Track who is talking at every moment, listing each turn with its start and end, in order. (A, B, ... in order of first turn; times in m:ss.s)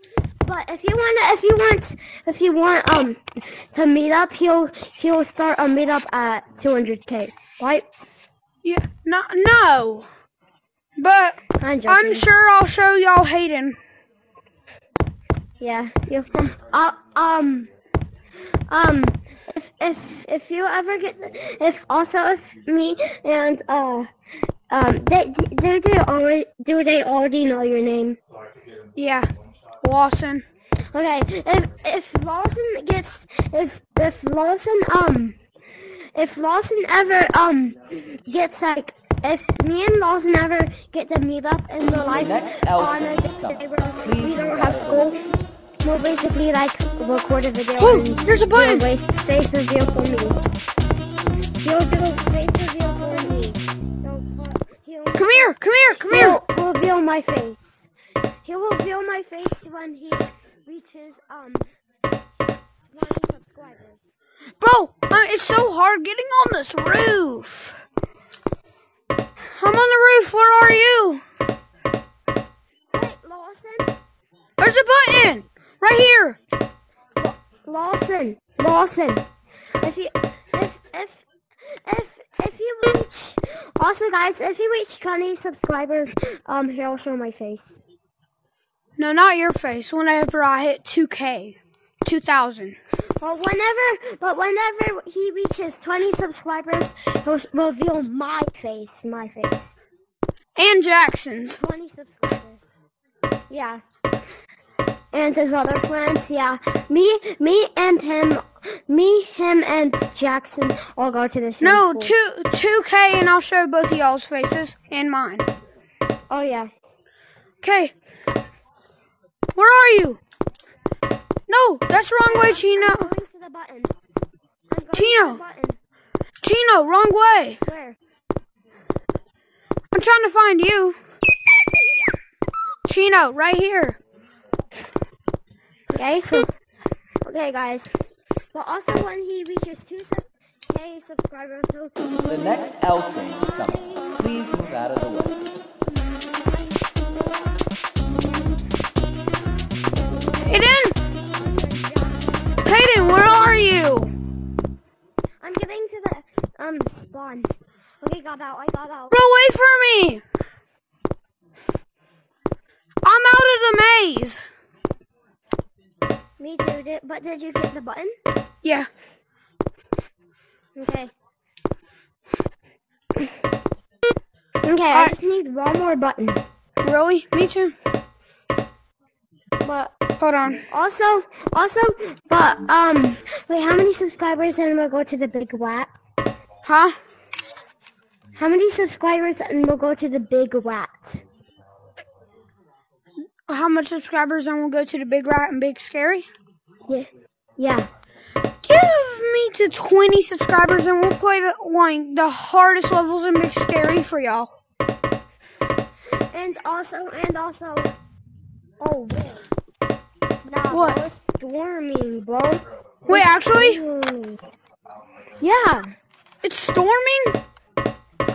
0:00.4-0:07.8 A
0:08.6-0:10.1 B
0:11.0-0:13.8 B
0:11.6-0:12.3 A
0:15.6-0:17.7 A
0:18.7-0:24.1 A
0:24.7-0:28.2 A
0:29.0-0:29.3 B
0:29.8-0:30.4 B
0:30.9-0:45.2 A
0:42.1-0:45.1 C
0:45.8-0:50.4 A
0:47.8-0:48.9 B
0:51.6-0:55.5 A
0:55.1-0:56.4 B
0:56.1-0:57.8 A
0:58.4-1:01.7 A
1:02.9-1:04.0 A
1:04.6-1:07.8 B
1:09.5-1:11.2 B
1:12.9-1:13.9 A
1:14.6-1:16.4 B
1:17.2-1:19.2 A
1:19.8-1:27.8 A
1:29.0-1:32.8 B
1:33.2-1:39.7 A
1:40.6-1:41.6 B
1:41.5-1:42.6 A
1:43.5-1:43.8 A
1:45.1-1:52.1 A
1:51.6-1:55.4 B
1:56.3-1:56.7 A
1:57.6-1:57.9 B
1:59.6-2:00.2 B
2:01.5-2:03.1 B
2:02.2-2:03.9 A
2:04.7-2:05.8 A
2:04.9-2:05.4 B
2:06.4-2:07.6 B
2:07.6-2:08.0 A
2:09.9-2:11.0 B
2:12.8-2:14.0 B
2:15.9-2:16.5 A
2:17.2-2:17.9 A
2:18.5-2:21.9 A
2:22.3-2:25.4 C
2:30.4-2:31.0 B
2:31.2-2:32.4 A
2:32.6-2:34.1 B
2:35.4-2:39.1 A
2:39.1-2:40.2 B
2:43.0-2:44.4 B
2:46.4-2:48.1 A
2:48.6-2:48.9 B
2:50.8-2:51.1 A
2:54.6-2:56.4 A
2:56.8-2:57.7 B
2:59.6-2:59.9 A
3:00.2-3:00.6 B
3:00.7-3:05.9 A
3:06.6-3:06.9 B
3:08.4-3:11.2 A
3:13.5-3:16.3 B
3:16.9-3:17.9 A
3:18.6-3:24.5 B
3:26.3-3:27.9 A
3:28.8-3:29.4 A
3:30.4-3:34.4 A
3:30.7-3:31.0 B
3:33.1-3:33.8 B
3:35.4-3:35.9 A
3:36.4-3:37.3 B